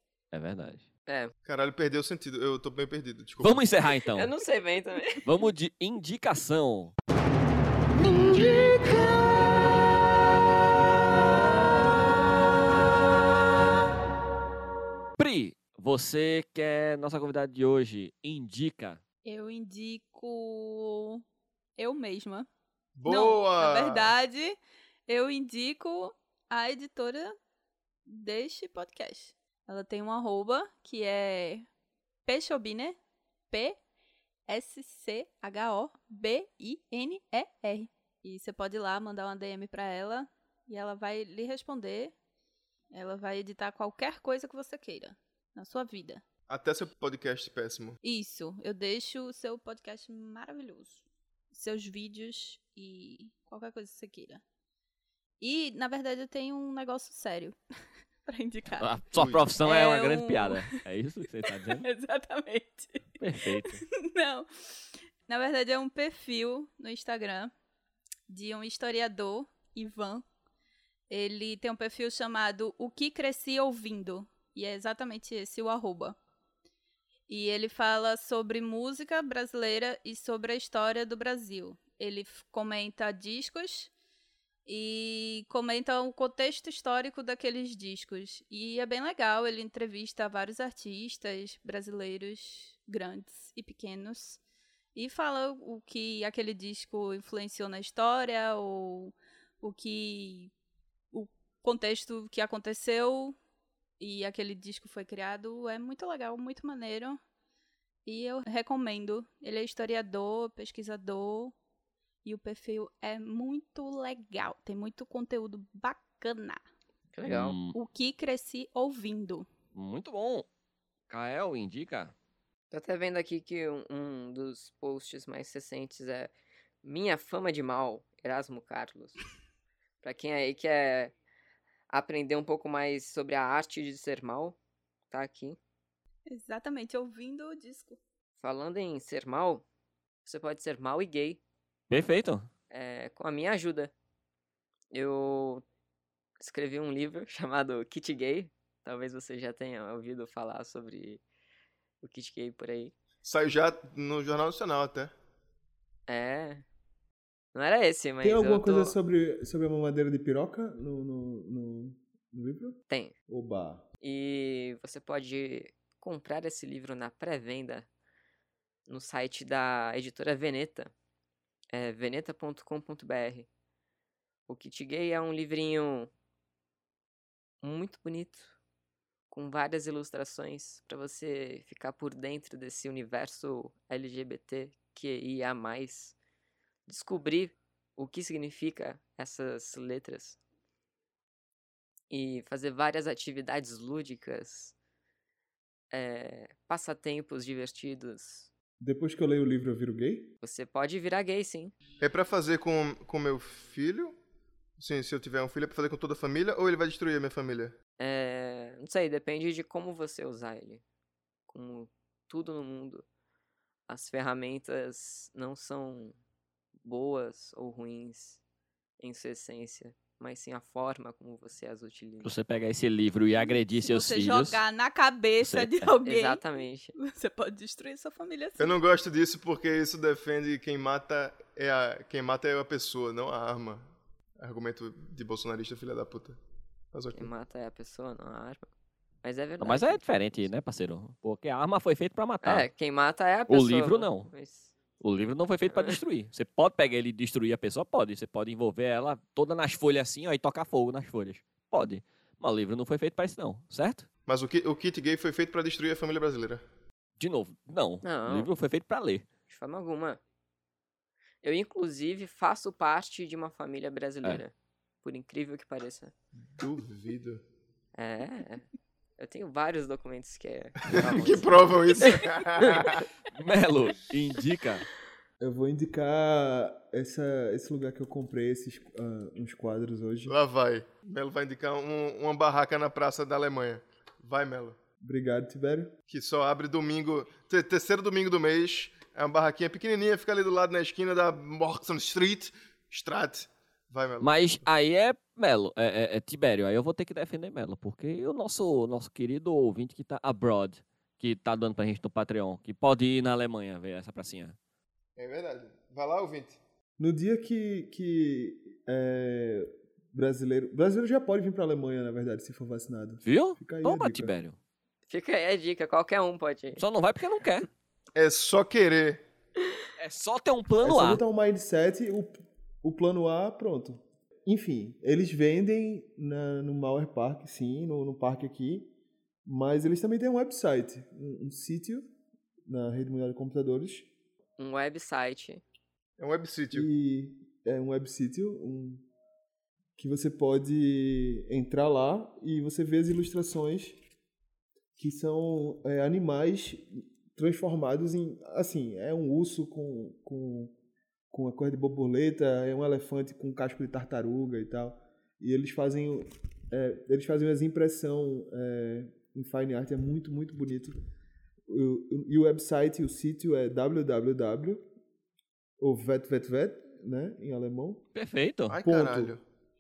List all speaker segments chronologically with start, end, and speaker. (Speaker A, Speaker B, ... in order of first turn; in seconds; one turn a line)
Speaker A: 0.3-0.8
Speaker B: 1.1-1.3
Speaker C: 1.4-3.6
Speaker A: 3.4-4.3
Speaker B: 4.1-5.2
Speaker A: 5.2-6.9
Speaker A: 15.2-19.0
Speaker D: 19.2-21.2
Speaker D: 21.8-22.5
Speaker C: 23.0-24.1
Speaker D: 23.1-27.4
Speaker D: 28.1-31.7
Speaker D: 32.2-33.0
Speaker D: 33.5-33.8
Speaker D: 34.5-42.1
Speaker D: 42.9-46.2
Speaker C: 46.5-48.0
Speaker D: 48.0-54.4
Speaker D: 55.4-57.6
Speaker D: 58.2-58.9
Speaker A: 58.8-61.9
Speaker C: 59.2-59.4
Speaker D: 59.6-60.8
Speaker D: 61.5-67.5
Speaker A: 63.2-63.8
Speaker D: 68.3-70.2
Speaker D: 71.1-76.2
Speaker D: 77.3-83.9
Speaker D: 84.7-94.4
Speaker D: 94.9-100.5
Speaker D: 101.1-103.3
Speaker D: 104.0-107.2
Speaker D: 108.0-111.5
Speaker D: 112.2-116.6
Speaker B: 117.1-117.6
Speaker A: 117.2-117.7
Speaker D: 117.7-119.5
Speaker A: 119.7-120.5
Speaker A: 121.1-122.1
Speaker B: 122.7-126.3
Speaker B: 126.8-129.2
Speaker B: 130.0-131.1
Speaker B: 131.9-134.6
Speaker B: 135.1-135.6
Speaker D: 136.3-138.0
Speaker B: 138.4-139.7
Speaker B: 140.2-141.4
Speaker A: 141.9-142.5
Speaker B: 142.7-143.9
Speaker B: 144.9-145.6
Speaker B: 146.4-151.2
Speaker B: 152.0-152.9
Speaker C: 153.2-155.1
Speaker B: 156.1-156.6
Speaker B: 157.5-158.9
Speaker E: 158.2-163.8
Speaker B: 162.9-163.1
Speaker B: 164.0-167.9
Speaker B: 168.9-170.9
Speaker B: 171.7-173.5
Speaker B: 174.5-176.1
Speaker B: 177.6-178.6
Speaker B: 179.3-186.2
Speaker B: 186.9-190.4
Speaker B: 192.1-194.7
Speaker B: 195.9-198.5
Speaker E: 198.8-200.3
Speaker B: 200.4-201.7
Speaker C: 202.0-204.2
Speaker C: 204.8-207.7
Speaker B: 208.0-210.8
Speaker B: 211.5-213.1
Speaker B: 213.9-216.2
Speaker B: 216.8-218.4
Speaker B: 219.0-222.3
Speaker A: 222.2-224.6
Speaker D: 223.5-226.4
Speaker A: 225.4-225.9
Speaker B: 226.0-226.9
Speaker D: 226.9-228.8
Speaker C: 228.6-236.4
Speaker C: 236.9-237.3
Speaker B: 237.1-238.7
Speaker B: 239.2-240.0
Speaker A: 239.6-242.7
Speaker B: 242.4-244.7
Speaker A: 243.5-244.3
Speaker A: 245.0-254.1
Speaker B: 245.7-246.0
Speaker C: 254.3-256.6
Speaker A: 257.2-259.2
Speaker B: 258.0-258.5
Speaker B: 259.5-260.2
Speaker B: 261.4-266.1
Speaker C: 266.5-267.4
Speaker B: 267.9-268.7
Speaker B: 269.2-272.2
Speaker C: 270.9-273.1
Speaker A: 273.3-274.9
Speaker E: 275.4-280.4
Speaker C: 280.3-284.8
Speaker E: 285.0-285.9
Speaker C: 286.1-294.6
Speaker A: 294.2-304.6
Speaker C: 305.2-306.6
Speaker E: 307.0-314.3
Speaker A: 313.2-314.6
Speaker B: 315.1-316.8
Speaker A: 316.8-317.7
Speaker C: 318.1-319.2
Speaker A: 320.0-321.2
Speaker E: 320.8-328.9
Speaker E: 329.4-332.1
Speaker E: 332.7-334.1
Speaker B: 334.6-335.6
Speaker C: 336.2-336.9
Speaker E: 336.7-339.1
Speaker E: 340.0-344.0
Speaker E: 345.0-350.7
Speaker E: 351.3-361.0
Speaker E: 361.7-364.8
Speaker E: 365.8-368.0
Speaker A: 368.1-368.8
Speaker C: 368.7-369.4
Speaker E: 368.8-369.4